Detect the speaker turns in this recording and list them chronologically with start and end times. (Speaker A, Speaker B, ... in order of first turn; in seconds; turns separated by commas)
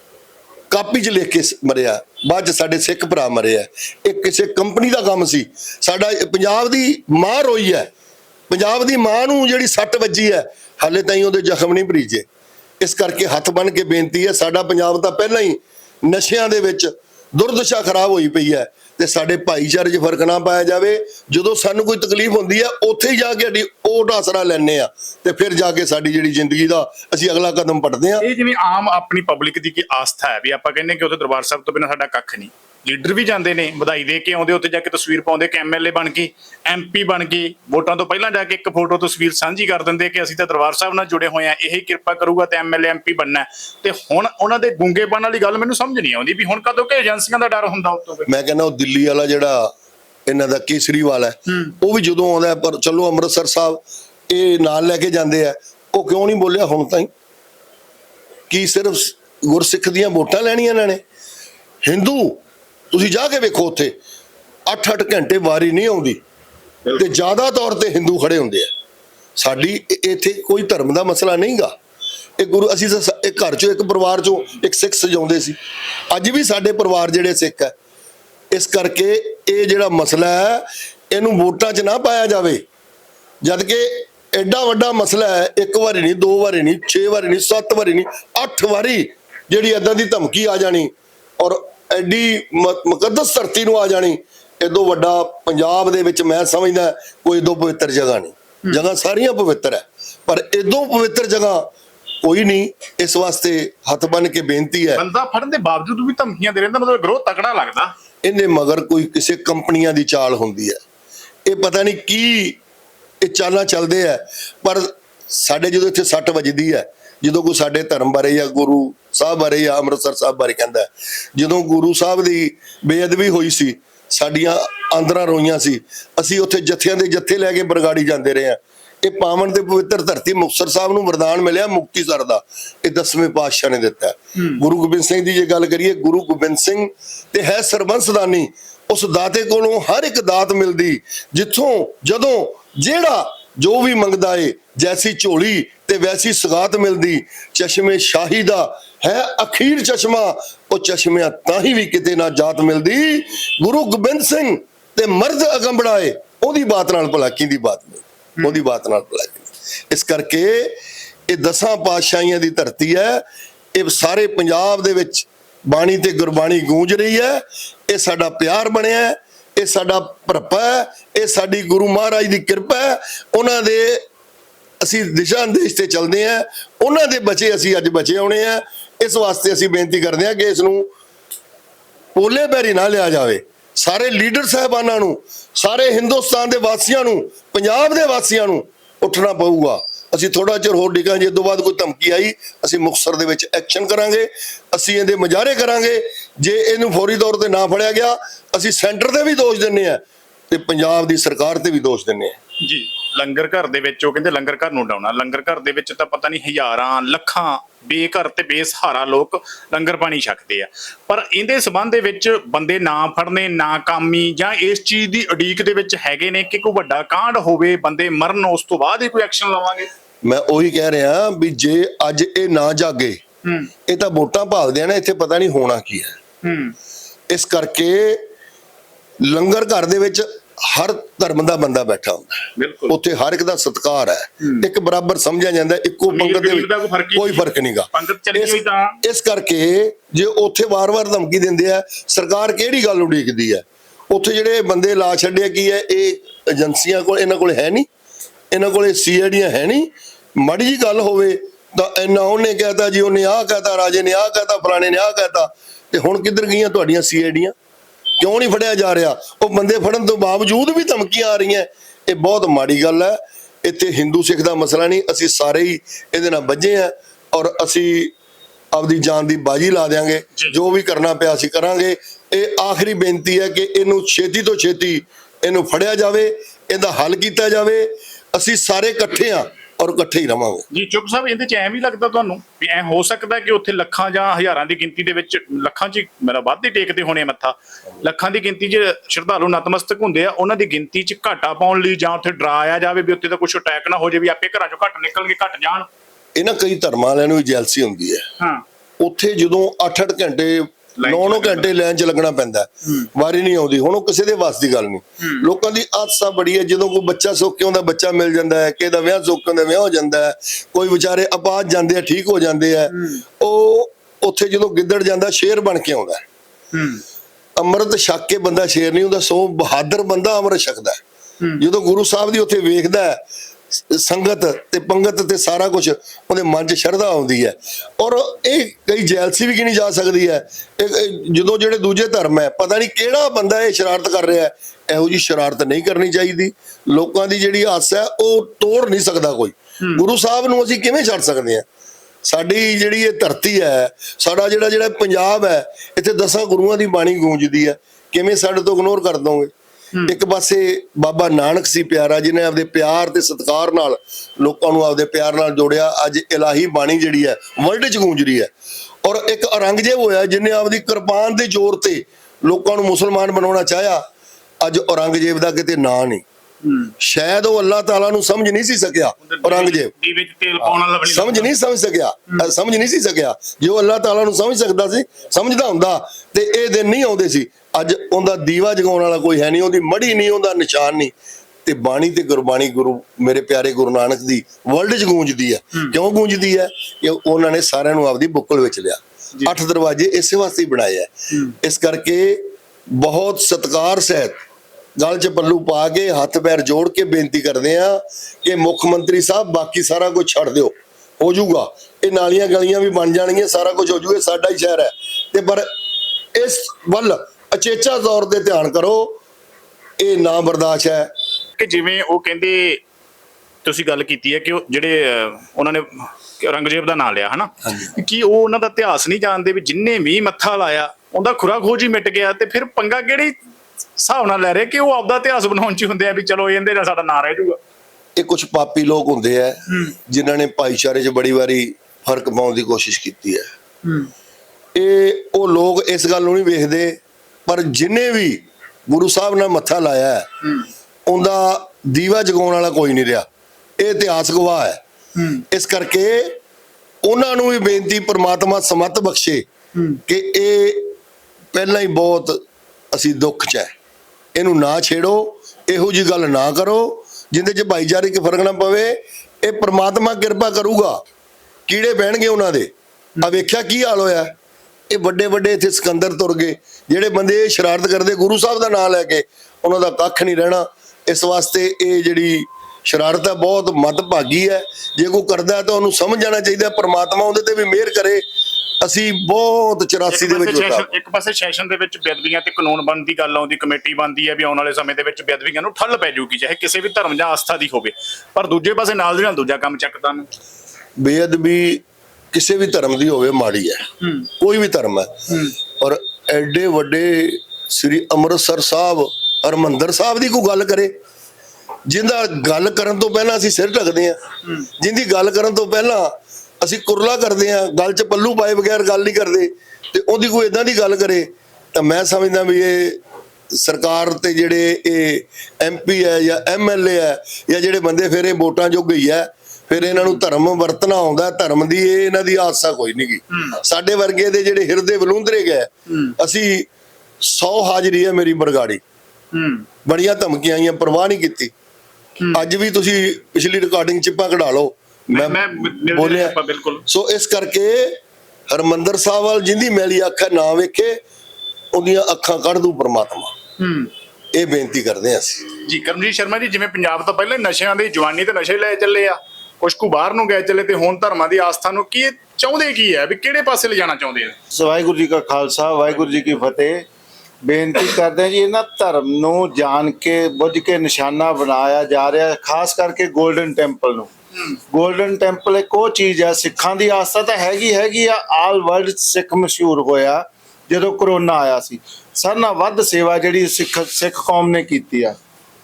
Speaker A: 0.7-7.9, Speaker A: 8.5-12.2, Speaker A: 12.8-28.2, Speaker B: 28.2-48.3, Speaker A: 48.3-49.7, Speaker A: 50.3-57.1, Speaker A: 58.5-61.0, Speaker A: 61.9-62.4, Speaker A: 62.9-63.9, Speaker A: 64.7-66.2, Speaker A: 66.9-68.7, Speaker A: 69.4-71.7, Speaker A: 72.4-75.5, Speaker A: 76.1-77.7, Speaker A: 78.5-82.6, Speaker A: 83.4-101.7, Speaker A: 102.2-105.0, Speaker B: 105.0-107.9, Speaker A: 108.2-110.8, Speaker A: 111.5-112.6, Speaker A: 113.2-160.8, Speaker A: 161.3-163.2, Speaker A: 163.7-174.0, Speaker A: 174.8-180.9, Speaker A: 182.1-202.3, Speaker B: 202.6-219.9, Speaker A: 220.2-223.2, Speaker A: 223.9-226.2, Speaker B: 226.4-226.7, Speaker A: 227.3-228.2, Speaker A: 229.2-247.9, Speaker B: 232.6-232.9, Speaker B: 236.1-239.0, Speaker A: 248.5-257.5, Speaker A: 258.2-268.1, Speaker A: 268.7-280.6, Speaker B: 280.7-295.9, Speaker A: 296.4-298.3, Speaker A: 299.0-316.2, Speaker B: 301.0-301.8, Speaker B: 312.9-313.2, Speaker B: 316.7-317.0, Speaker A: 317.6-321.0, Speaker A: 321.6-323.2, Speaker A: 323.7-341.6, Speaker A: 342.2-349.5, Speaker A: 350.1-358.5, Speaker A: 359.0-364.0, Speaker A: 364.6-366.2, Speaker B: 366.6-366.9, Speaker A: 367.0-369.9, Speaker B: 369.3-371.5, Speaker A: 370.6-381.1, Speaker A: 381.6-394.4, Speaker A: 395.0-405.7, Speaker A: 406.3-409.2, Speaker A: 410.0-411.1, Speaker B: 411.6-412.8, Speaker B: 413.6-423.3, Speaker B: 424.0-427.6, Speaker A: 428.2-433.5, Speaker B: 433.8-434.1, Speaker A: 434.8-440.3, Speaker A: 441.1-443.2, Speaker A: 443.8-444.8, Speaker B: 445.1-445.4, Speaker A: 445.5-446.4, Speaker A: 447.0-449.4, Speaker A: 450.1-450.9, Speaker A: 451.5-452.4, Speaker A: 452.9-453.7, Speaker A: 454.4-461.0, Speaker A: 461.7-464.3, Speaker A: 464.9-478.2, Speaker A: 478.8-480.9, Speaker B: 480.1-490.3, Speaker A: 491.0-500.9, Speaker B: 494.0-494.3, Speaker A: 501.9-504.2, Speaker A: 504.8-513.0, Speaker A: 513.5-526.7, Speaker B: 519.8-520.2, Speaker B: 523.3-523.6, Speaker A: 527.2-528.8, Speaker B: 529.3-529.6, Speaker A: 529.8-531.5, Speaker A: 532.3-538.0, Speaker B: 535.1-536.8, Speaker A: 538.5-541.0, Speaker A: 541.7-543.3, Speaker B: 543.6-543.9, Speaker A: 544.3-545.5, Speaker B: 545.6-554.4, Speaker C: 554.5-556.8, Speaker C: 557.4-564.1, Speaker C: 564.7-575.2